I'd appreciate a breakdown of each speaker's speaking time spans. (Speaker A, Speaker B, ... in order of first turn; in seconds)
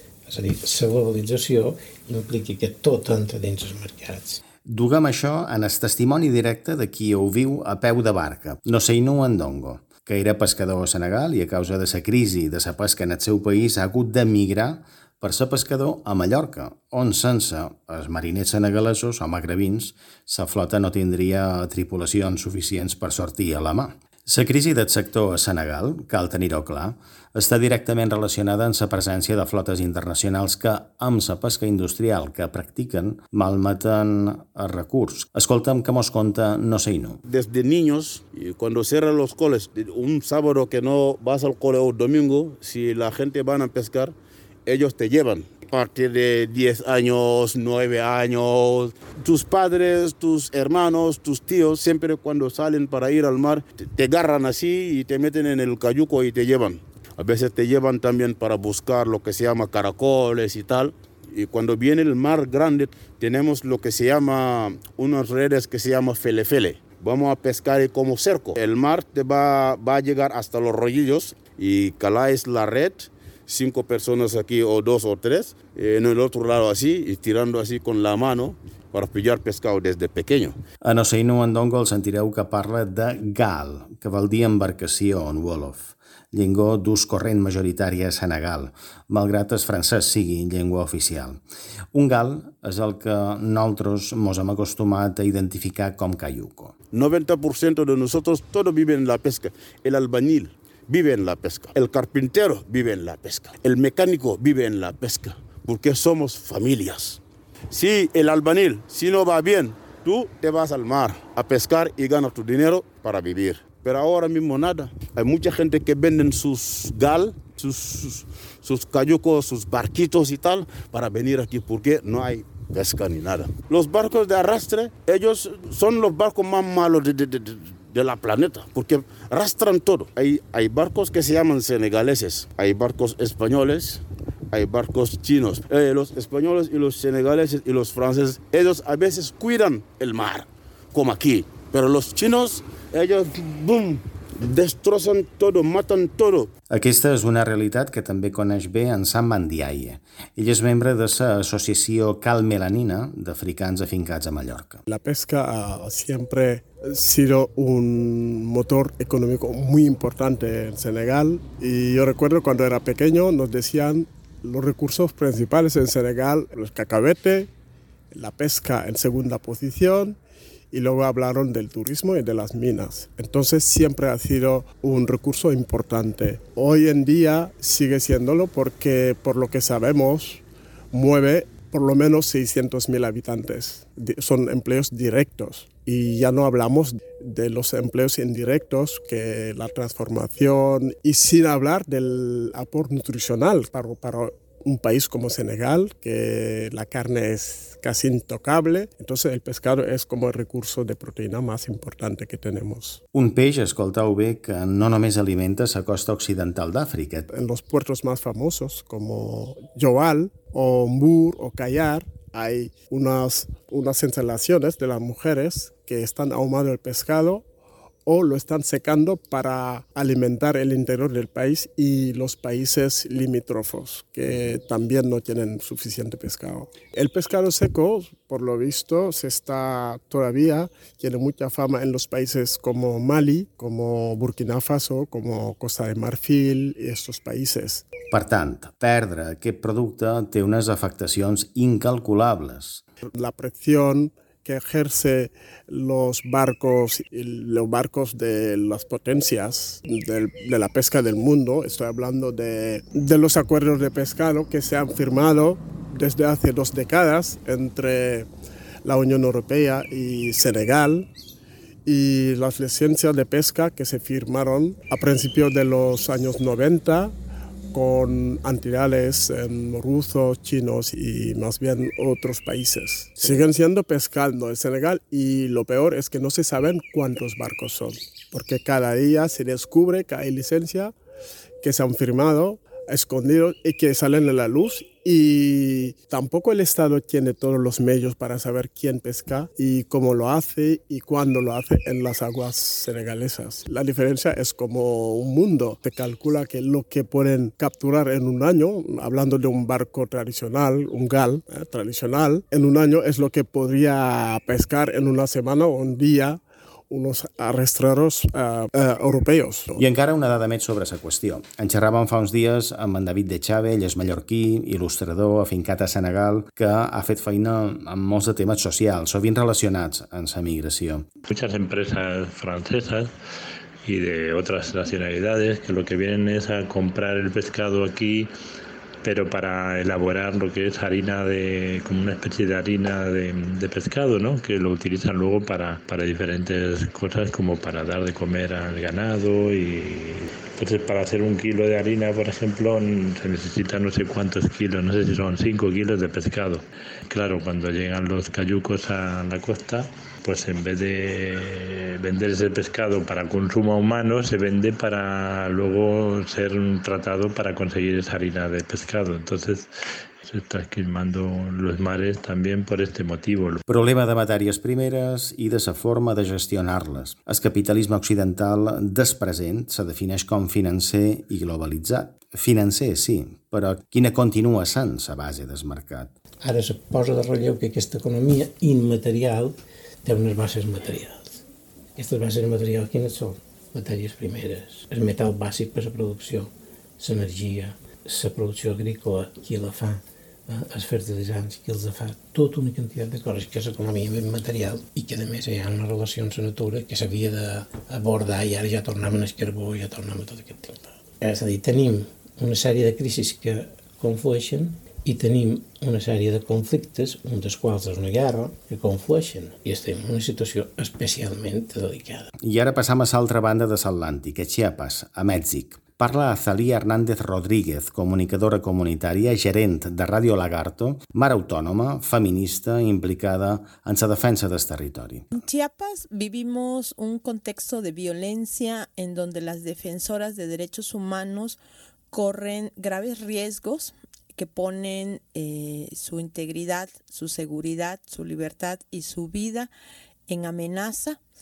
Speaker A: 0.3-4.4, 376.4-381.4, 382.0-412.3
Speaker B: 4.7-37.2, 80.8-91.4, 91.9-96.8, 146.7-154.8, 203.1-207.3, 238.1-242.8, 309.8-321.1, 363.7-376.1, 412.4-425.3
Speaker C: 37.3-44.1, 44.7-80.6, 96.9-146.5
Speaker D: 154.9-167.5, 168.1-170.2, 170.7-203.0, 207.3-217.5, 218.1-237.9, 243.2-258.3, 258.8-261.1, 261.9-267.2, 267.7-280.9, 281.6-309.8
Speaker E: 321.3-323.1, 323.8-328.3, 329.0-359.7, 360.2-363.6
Speaker F: 425.3-431.6, 432.1-439.7, 440.3-441.2